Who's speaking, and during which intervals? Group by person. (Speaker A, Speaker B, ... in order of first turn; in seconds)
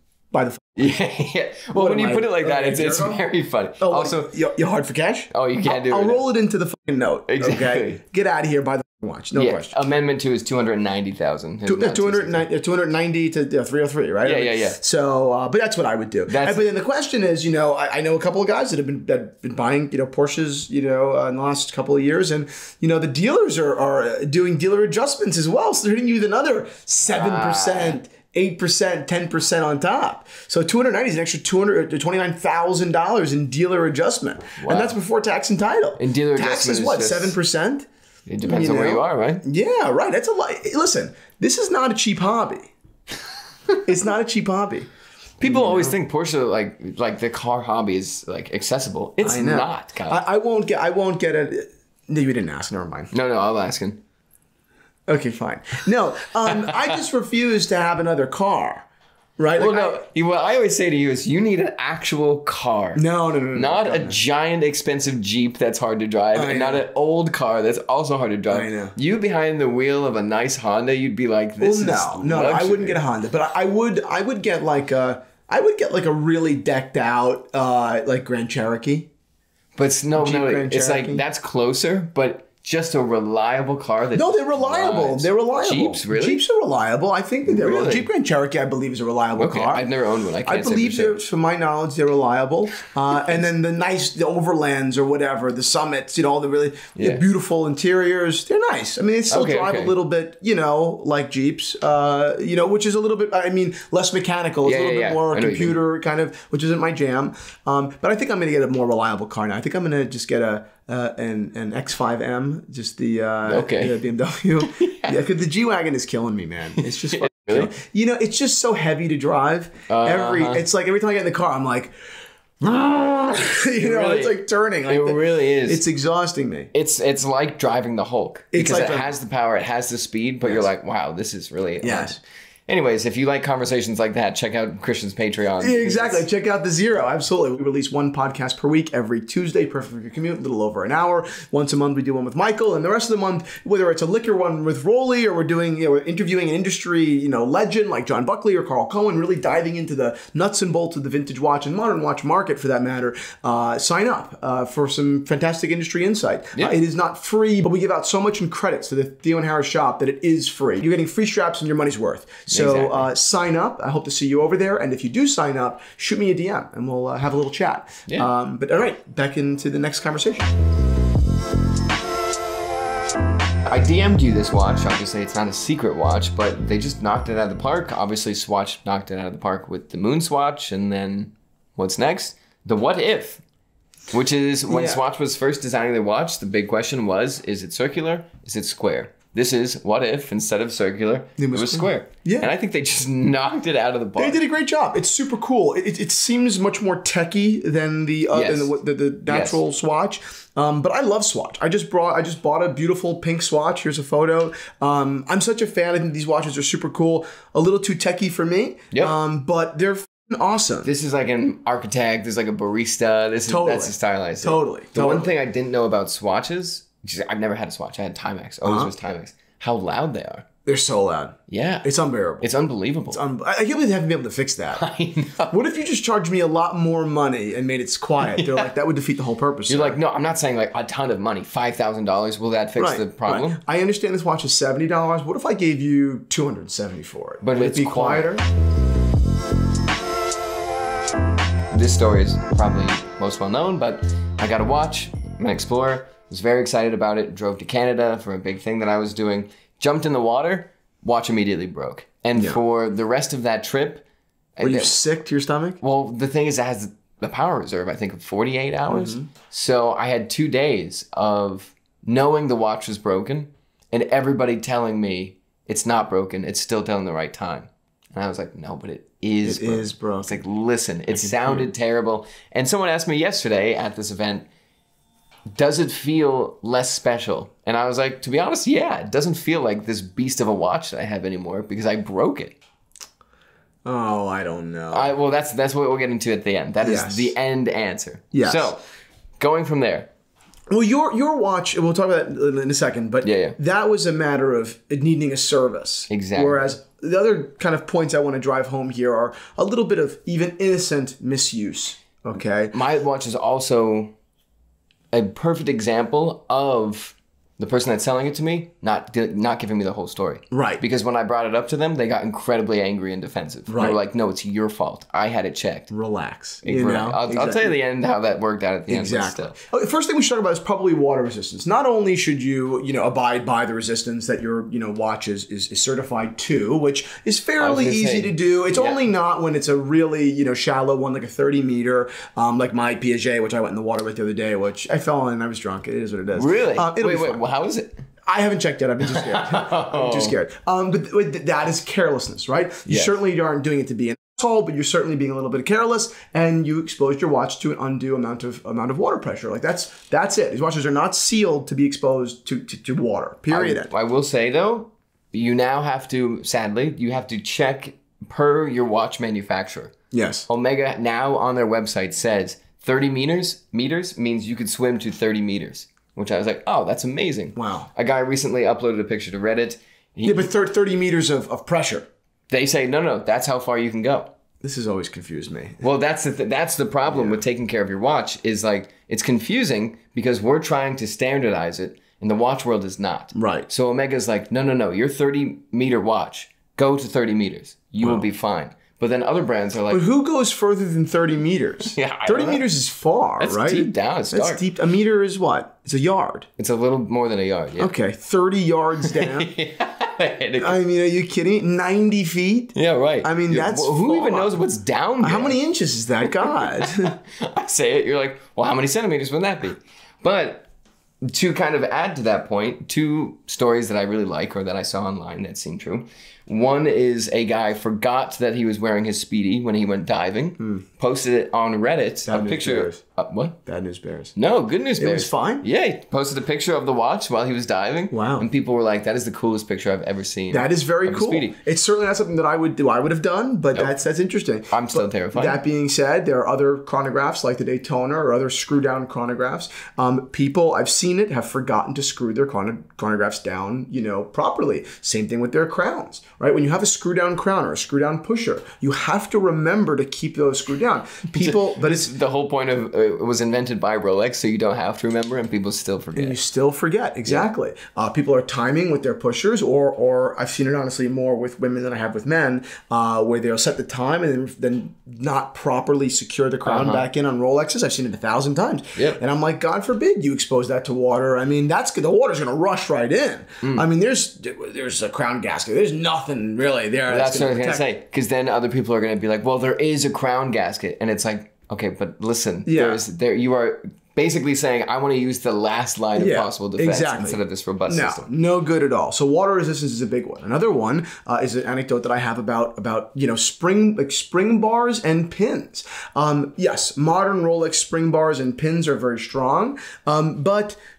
Speaker A: 0.3-0.8, 1.7-3.2, 3.8-9.7, 11.7-37.9, 38.4-42.7, 43.8-44.9, 45.4-46.0, 49.2-53.1, 55.1-58.9, 59.4-60.0, 62.9-64.2, 66.3-66.8, 68.5-68.9, 71.6-79.1, 80.2-81.2, 84.1-89.9, 90.4-121.9, 122.6-126.7, 128.5-129.1, 131.8-132.2, 135.6-170.5, 184.7-185.0, 191.4-192.5, 194.2-210.9, 213.5-215.3, 218.6-218.9, 220.7-222.5, 223.1-224.8, 225.5-230.0, 232.8-238.4, 254.6-255.8, 258.9-259.3, 269.4-270.4, 271.1-271.6, 283.8-285.1, 286.8-287.3, 288.3-288.7, 290.7-302.7, 310.5-310.8, 313.7-314.0, 315.9-317.8, 318.9-337.4, 338.2-353.9, 360.1-360.5, 367.5-367.9, 370.2-372.1, 374.6-375.8, 377.1-377.4, 383.3-383.7, 389.9-396.5, 397.8-399.5, 400.6-404.6, 405.2-407.1, 420.6-420.8, 422.2-423.0, 423.6-424.3, 425.0-425.6, 428.1-428.4, 430.5-452.1, 456.1-477.9, 482.6-483.0, 486.1-500.8
Speaker B: 0.8-4.3, 5.3-6.2, 7.3-8.0, 9.3-12.5, 14.2-14.8, 16.3-16.6, 27.0-28.0, 34.6-35.0, 36.0-37.3, 38.3-39.4, 45.4-50.2, 53.1-54.0, 56.6-56.9, 59.6-73.0, 79.8-86.4, 87.5-88.1, 89.4-91.2, 97.0-97.2, 99.3-99.9, 104.6-105.8, 113.5-114.0, 114.6-115.2, 116.8-117.7, 119.9-120.6, 123.8-125.8, 126.7-136.2, 162.5-163.1, 173.7-183.4, 184.1-194.4, 198.3-199.6, 210.8-220.5, 221.5-221.9, 222.4-223.2, 224.7-225.6, 228.2-228.7, 229.7-233.6, 237.4-238.3, 241.7-254.0, 254.6-255.0, 255.8-274.5, 275.5-282.5, 284.9-288.8, 289.4-290.1, 293.2-293.6, 296.1-296.7, 302.7-304.1, 305.1-315.9, 316.6-319.6, 327.6-329.0, 336.4-338.0, 339.1-340.4, 342.9-343.1, 353.5-359.9, 360.5-370.5, 372.5-374.3, 375.8-390.0, 391.9-392.6, 393.4-394.6, 396.6-397.9, 399.1-400.8, 402.7-405.6, 406.3-410.7, 411.2-423.6, 424.4-431.6, 434.7-435.6, 451.3-456.4, 466.6-467.1, 477.1-488.3